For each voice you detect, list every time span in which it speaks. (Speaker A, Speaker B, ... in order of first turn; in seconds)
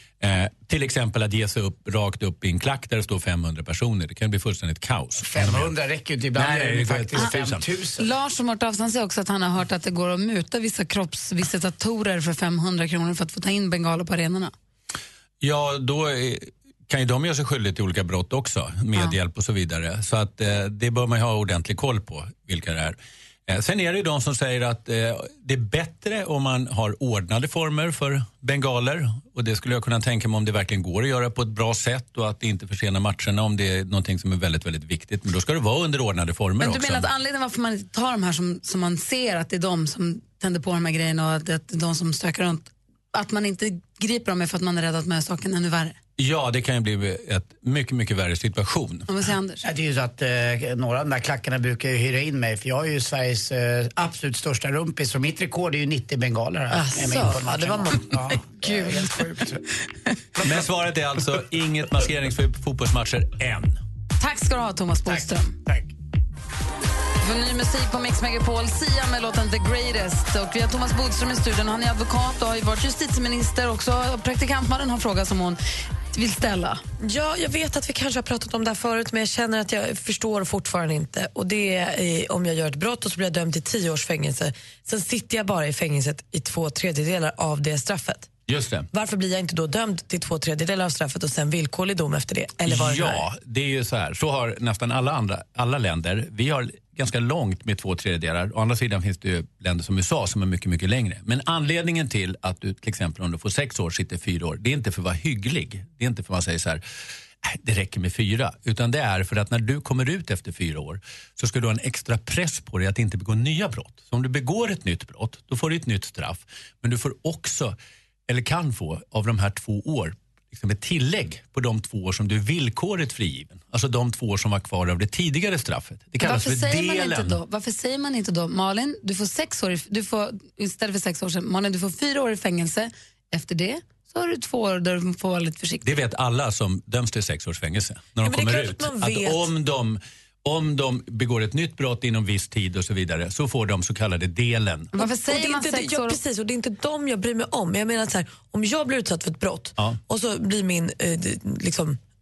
Speaker A: 0.2-5.7, 6.3-7.7, 15.4-37.1, 46.2-49.1, 60.4-63.8, 88.5-88.9, 92.7-106.8, 107.5-117.8, 118.3-127.4, 135.8-144.9
Speaker B: 5.2-8.1, 49.6-59.6, 65.1-65.9
Speaker C: 8.0-14.5, 36.6-46.0, 49.1-49.6, 58.6-59.1, 64.2-65.6, 67.2-75.6, 76.1-76.8, 126.2-135.9, 144.9-146.2
Speaker D: 56.7-58.1, 77.0-88.3, 88.9-93.3, 138.2-139.5, 145.0-152.0